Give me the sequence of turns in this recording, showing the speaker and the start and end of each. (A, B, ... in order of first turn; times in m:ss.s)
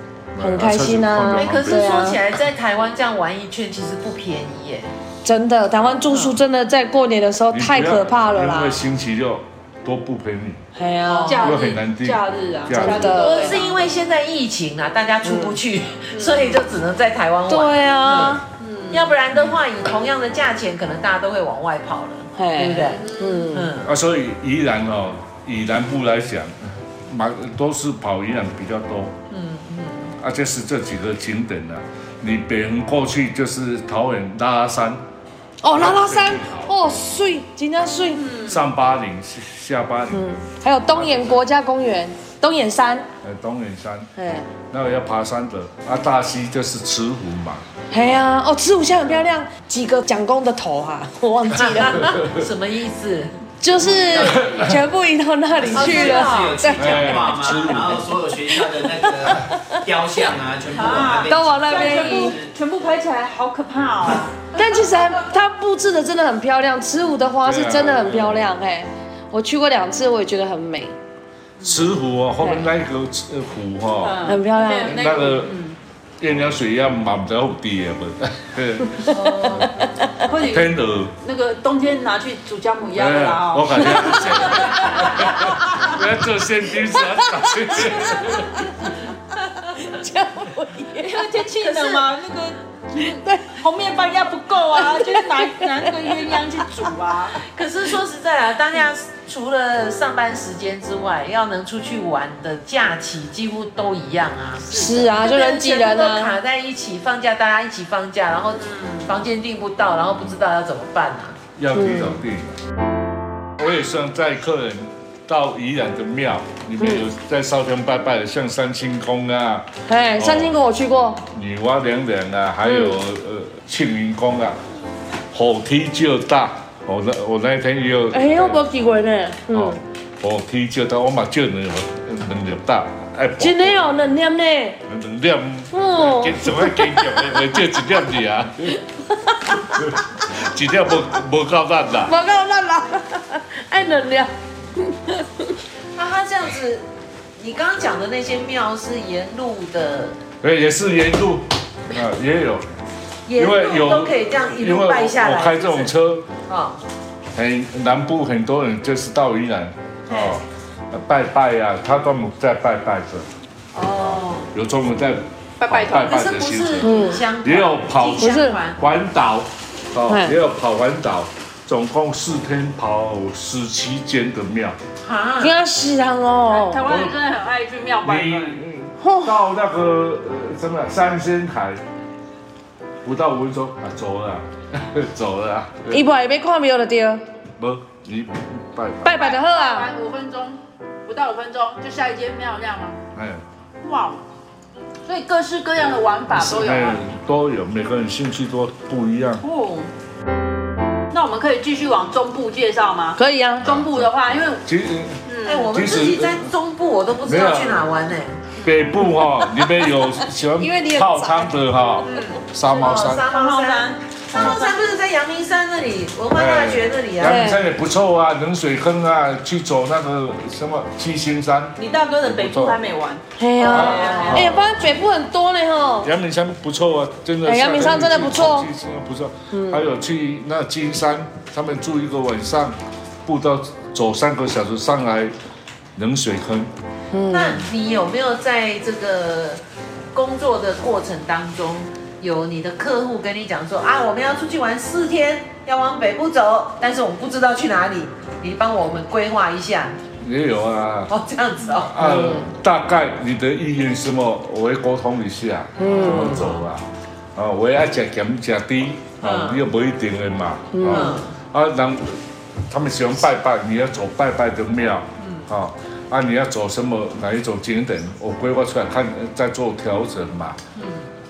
0:00.3-0:02.2 A
0:00.4-0:02.2 B
0:01.3-0:04.9 C
0:05.2-0:08.8 B
0:07.5-0:10.6 A
0:10.8-0:11.5 B
0:11.1-0:11.6 C
0:11.2-0:13.8 D
0:11.4-0:13.2 A
0:12.7-0:13.6 B
0:13.1-0:23.9 C
0:15.2-0:15.6 B
0:16.1-0:16.6 D
0:17.5-0:18.4 B
0:18.6-0:19.2 D
0:22.4-0:23.8 B
0:22.8-0:23.6 D
0:23.8-0:29.2 A
0:29.3-0:30.1 C
0:30.2-0:35.0 A
0:35.6-0:38.3 B
0:35.7-0:36.9 A
0:38.1-0:38.7 D
0:38.5-0:41.4 A
0:40.1-0:43.1 B
0:43.2-0:44.1 A
0:44.2-0:44.5 B
0:44.6-0:47.6 A
0:47.9-0:52.3 B
0:51.5-0:53.4 C
0:52.0-0:52.5 A
0:53.6-0:57.7 B
0:53.8-0:54.7 E
0:54.2-0:54.8 A
0:55.6-1:02.5 E
0:55.7-0:57.0 C
0:56.8-0:58.2 A
0:58.5-0:59.8 B
1:00.7-1:04.3 D
1:01.3-1:02.4 B
1:04.6-1:11.0 B
1:07.4-1:08.5 A
1:11.6-1:11.9 D
1:11.6-1:14.2 A
1:14.0-1:15.8 D
1:14.2-1:15.2 B
1:14.8-1:15.6 A
1:16.2-1:19.7 A
1:19.1-1:19.7 C
1:19.1-1:20.2 B
1:20.2-1:25.9 D
1:20.3-1:21.2 A
1:23.0-1:28.7 A
1:24.0-1:24.3 B
1:26.8-1:32.0 B
1:31.0-1:37.4 D
1:33.0-1:33.6 B
1:34.7-1:36.8 B
1:37.5-1:51.4 C
1:44.7-1:46.4 B
1:44.7-1:46.0 D
1:48.6-1:49.2 D
1:51.6-1:52.6 A
1:51.8-1:52.2 B
1:53.6-2:00.6 A
1:56.8-1:57.1 B
1:59.9-2:01.2 B
2:01.3-2:04.6 A
2:02.6-2:03.0 B
2:05.3-2:08.6 A
2:08.1-2:09.8 B
2:09.5-2:13.8 A
2:13.4-2:14.8 B
2:14.9-2:18.8 A
2:15.7-2:17.6 B
2:18.7-2:19.9 B
2:19.7-2:22.2 A
2:22.0-2:25.6 B
2:26.0-2:26.9 C
2:27.4-2:30.2 C
2:30.4-2:32.7 A
2:33.3-2:35.9 C
2:33.4-2:36.3 A
2:36.5-2:36.8 C
2:37.3-2:43.3 A
2:40.1-2:40.4 C
2:43.7-2:44.5 C
2:43.9-2:54.8 A
2:45.6-2:46.4 D
2:46.0-2:48.8 C
2:46.8-2:47.3 B
2:48.2-2:48.6 B
2:50.1-2:50.4 B
2:55.0-2:55.6 C
2:55.4-2:56.8 B
2:56.4-2:58.6 D
2:56.8-2:57.2 A
2:58.0-3:01.8 A
2:59.0-2:59.4 B
3:03.0-3:06.0 A
3:05.9-3:07.2 B
3:07.6-3:09.2 A
3:09.0-3:09.9 B
3:09.1-3:13.0 D
3:13.1-3:13.4 A
3:13.8-3:14.2 D
3:15.0-3:17.0 D
3:16.3-3:19.4 A
3:19.4-3:19.9 D
3:21.1-3:24.7 D
3:23.2-3:23.7 B
3:23.6-3:24.1 A
3:24.6-3:26.5 A
3:25.2-3:25.7 D
3:25.4-3:28.5 C
3:27.2-3:27.9 A
3:28.6-3:33.3 A
3:30.6-3:31.5 B
3:32.0-3:32.4 D
3:32.7-3:37.5 C
3:33.0-3:34.8 D
3:36.3-3:42.8 A
3:37.2-3:37.6 B
3:41.8-3:44.5 D
3:43.4-3:46.1 B
3:43.6-3:44.8 A
3:46.0-3:55.3 A
3:47.4-3:48.7 B
3:49.5-3:49.9 B
3:56.0-3:56.7 A
3:57.1-3:57.6 B
3:57.3-3:59.6 C
4:00.1-4:10.0 C
4:10.2-4:11.1 A
4:11.1-4:12.0 C
4:11.7-4:30.6 A
4:12.0-4:12.5 B
4:15.8-4:16.5 B
4:15.9-4:16.7 C
4:19.2-4:19.6 C
4:20.7-4:21.2 B
4:20.9-4:21.3 C
4:25.2-4:25.5 C
4:30.8-4:31.1 C